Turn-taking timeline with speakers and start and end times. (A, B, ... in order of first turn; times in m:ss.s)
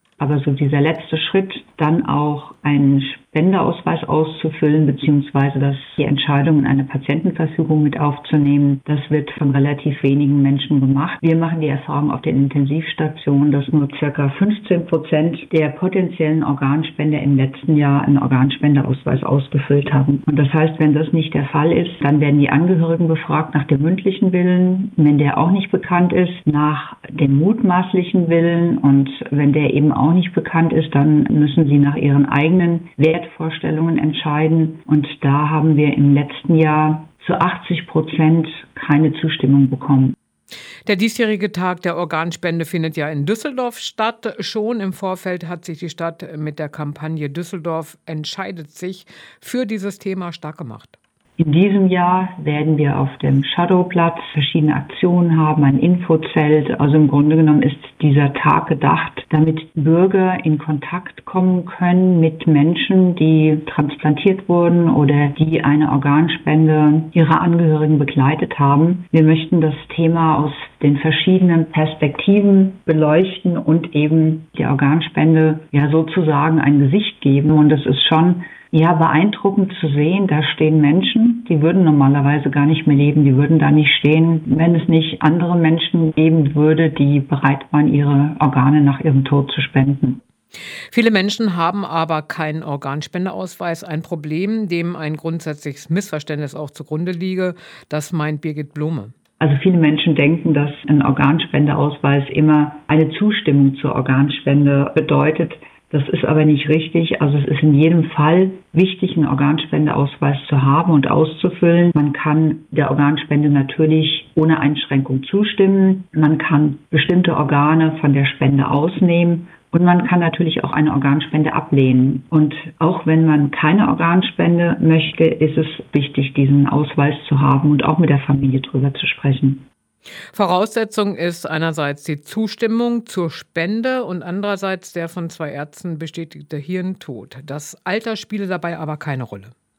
0:00.2-0:40.2 A
0:40.9-0:51.0 B
0:51.4-1:30.2 A
1:30.9-1:39.1 B
1:39.4-2:09.7 A
2:10.3-2:19.5 B